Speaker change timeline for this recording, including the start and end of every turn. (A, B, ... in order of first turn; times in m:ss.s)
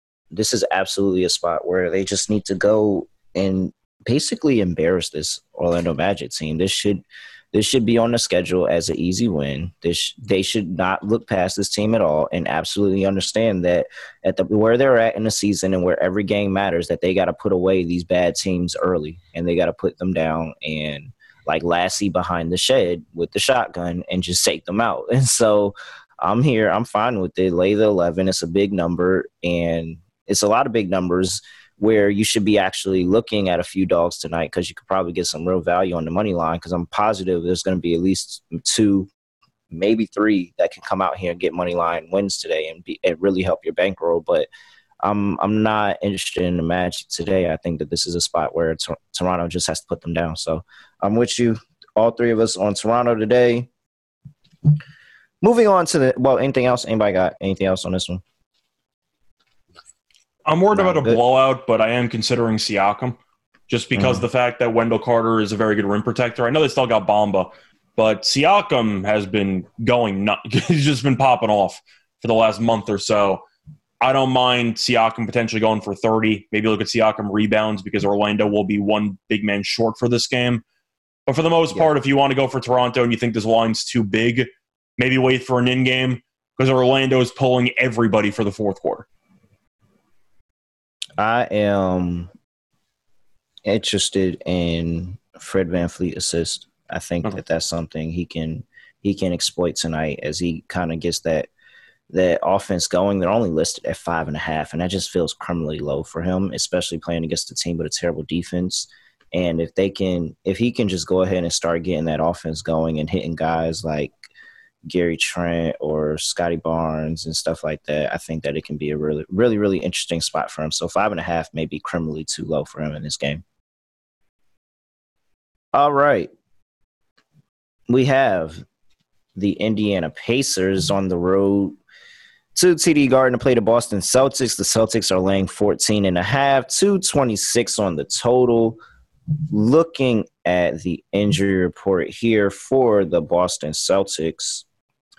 0:00.3-0:39.1 A
0:39.7-0:44.5 A
0:45.0-0:53.7 A
0:55.4-0:58.2 A
1:00.4-1:03.2 B
1:00.7-1:01.2 A
1:03.7-1:13.4 B
1:03.9-1:04.2 A
1:14.0-1:20.6 B
1:21.3-1:29.1 B
1:31.2-1:32.3 A
1:33.6-1:41.5 A
1:42.1-1:54.1 A
1:54.9-2:03.4 A
2:05.7-2:06.3 A
2:07.9-2:08.6 A
2:09.4-2:11.8 A
2:12.6-2:18.8 A
2:19.5-2:24.6 A